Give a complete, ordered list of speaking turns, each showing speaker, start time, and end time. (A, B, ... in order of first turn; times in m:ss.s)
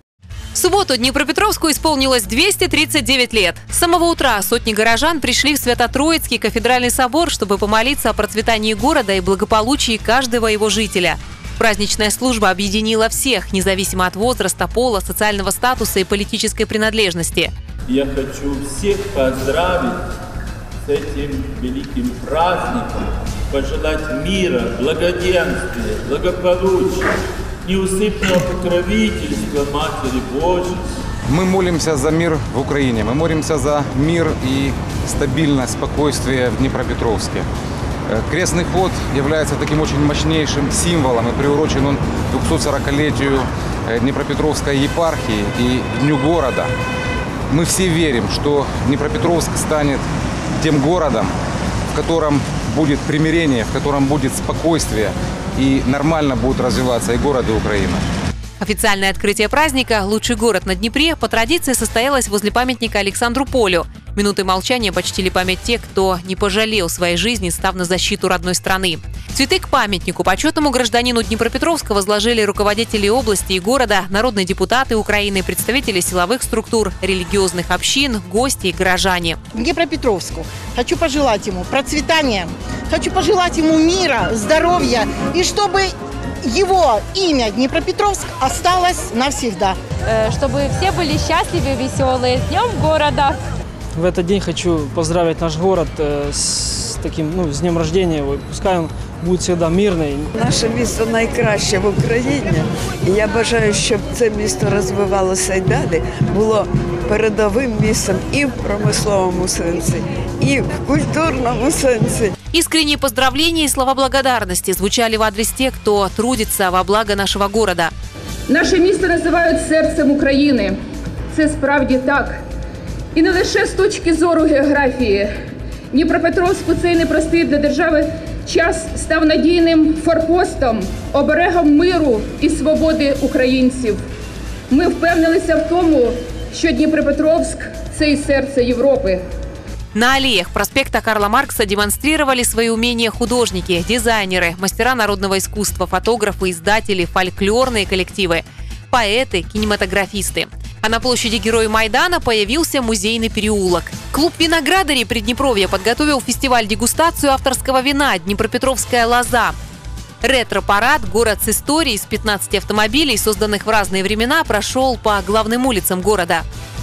0:00.6-0:17.5 A
0:17.9-0:20.0 B
0:20.8-0:30.8 B
0:31.3-0:37.5 C
0:38.1-0:46.7 C
0:47.5-0:50.0 C
0:50.6-0:51.3 C
0:51.9-0:58.1 C
0:58.6-1:19.4 A
1:19.5-1:29.8 D
1:30.1-1:33.4 E
1:34.0-1:40.3 F
1:40.3-1:52.3 G
1:52.5-1:57.9 A
1:58.5-2:00.8 H
2:01.3-2:02.4 H
2:03.2-2:05.4 H
2:05.9-2:14.0 H
2:14.7-2:19.2 H
2:19.9-2:39.6 A
2:40.2-2:46.4 A